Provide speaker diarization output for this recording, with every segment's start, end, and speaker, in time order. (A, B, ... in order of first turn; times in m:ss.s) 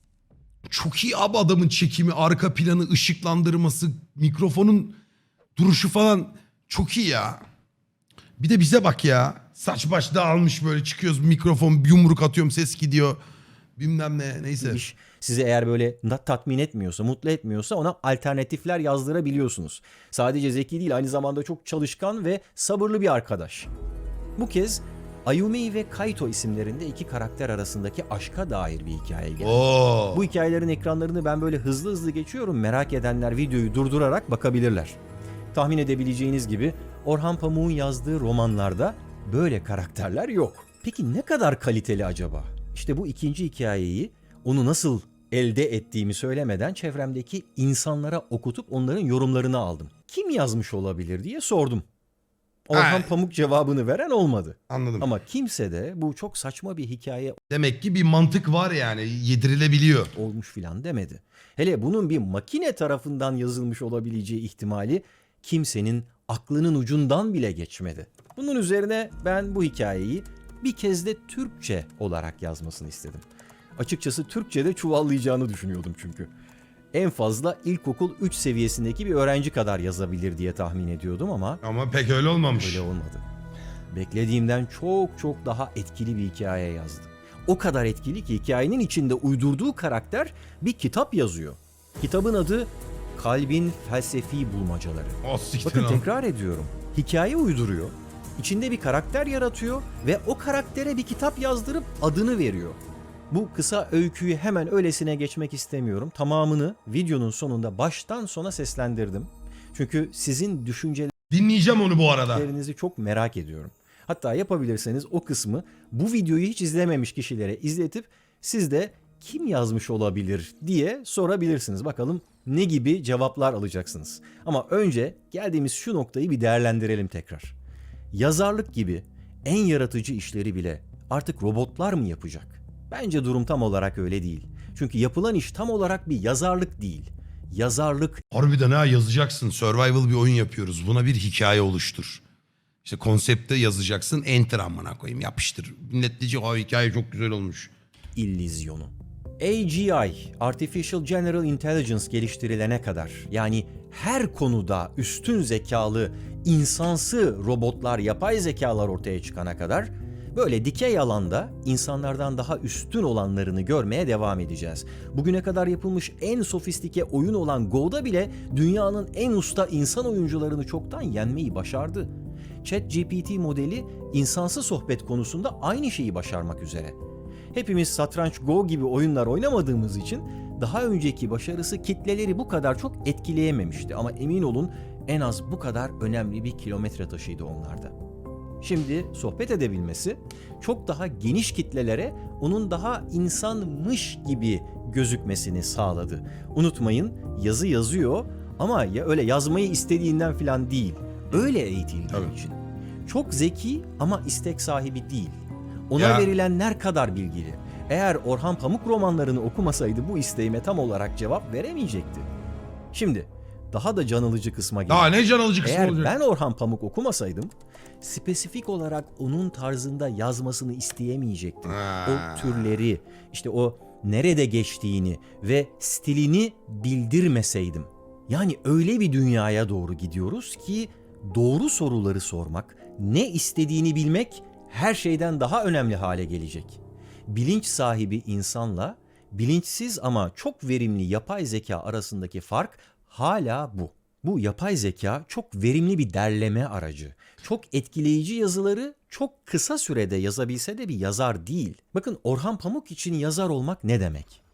0:00.7-0:05.0 A
0:05.6-0:07.4 A
0:08.4-0:13.2 A
0:13.8-0:14.8 A
0:14.6-0:23.7 B
0:24.4-0:35.0 B
0:29.4-0:30.3 A
0:35.5-0:51.8 B
0:52.7-0:57.4 B
0:52.7-0:53.1 A
0:54.7-0:55.1 A
0:57.5-1:00.1 A
1:00.1-1:13.3 B
1:13.8-1:16.3 B
1:16.9-1:21.6 B
1:21.6-1:22.8 A
1:22.6-1:23.2 B
1:23.9-1:42.8 B
1:35.2-1:36.0 A
1:43.3-1:51.1 B
1:51.3-1:52.5 A
1:52.3-2:07.6 B
2:08.1-2:18.2 B
2:18.3-2:22.2 A
2:22.8-2:27.7 A
2:28.2-2:57.0 B
2:57.5-3:07.9 B
3:08.6-3:32.3 B
3:26.0-3:26.3 A
3:32.9-3:35.1 B
3:34.9-3:36.2 A
3:35.6-4:14.4 B
3:41.6-3:42.6 A